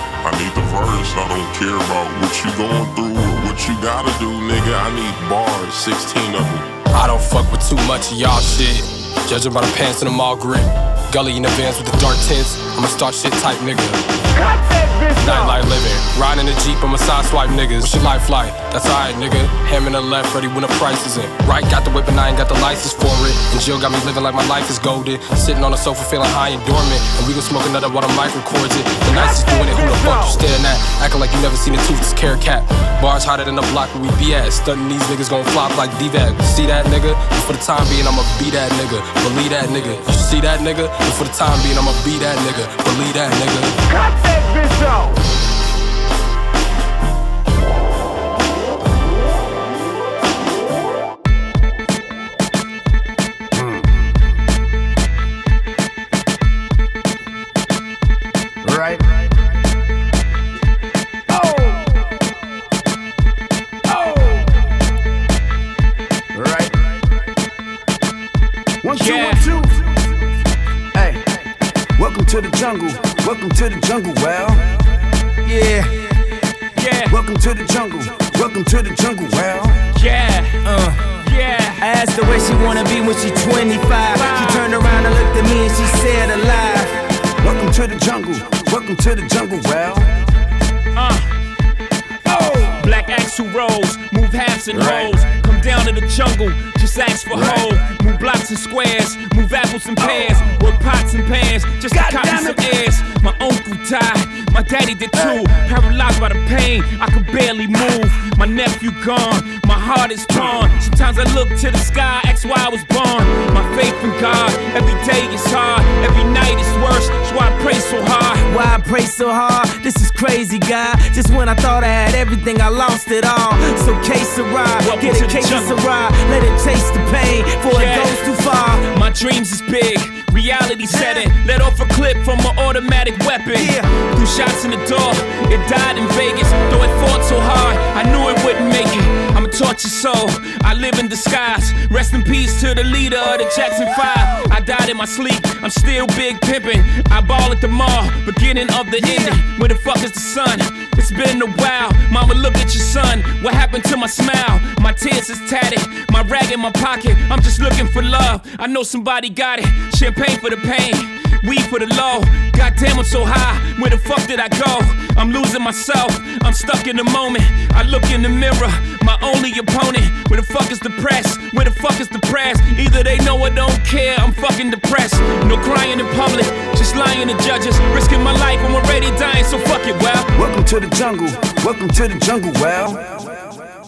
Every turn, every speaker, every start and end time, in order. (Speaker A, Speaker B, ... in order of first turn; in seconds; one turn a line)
Speaker A: 0.2-6.7
Speaker B: 6.9-14.0
Speaker C: 14.4-15.6
Speaker B: 15.2-43.8
Speaker C: 29.2-30.4
Speaker C: 43.9-45.1
Speaker C: 53.5-53.9
Speaker C: 58.6-59.3
Speaker C: 61.3-61.9
Speaker C: 63.9-64.5
Speaker C: 66.3-66.8
Speaker C: 68.8-69.8
Speaker D: 68.9-69.5
Speaker C: 70.9-71.4
Speaker C: 72.0-74.7
Speaker E: 75.5-76.2
Speaker D: 76.8-77.2
Speaker C: 77.1-79.8
Speaker D: 79.9-81.8
Speaker E: 80.7-81.1
Speaker E: 81.8-86.9
Speaker D: 84.1-84.7
Speaker C: 87.4-90.1
Speaker D: 91.0-91.3
Speaker C: 92.3-93.0
Speaker D: 92.7-118.5
Speaker C: 94.7-95.4
Speaker C: 97.3-98.0
Speaker C: 100.0-100.7
Speaker C: 101.9-102.8
Speaker C: 105.2-105.6
Speaker C: 110.3-110.7
Speaker E: 118.5-128.9
Speaker D: 124.8-125.8
Speaker D: 127.7-128.3
Speaker D: 128.8-180.3
Speaker E: 130.9-131.3
Speaker E: 133.5-133.9
Speaker C: 180.3-183.4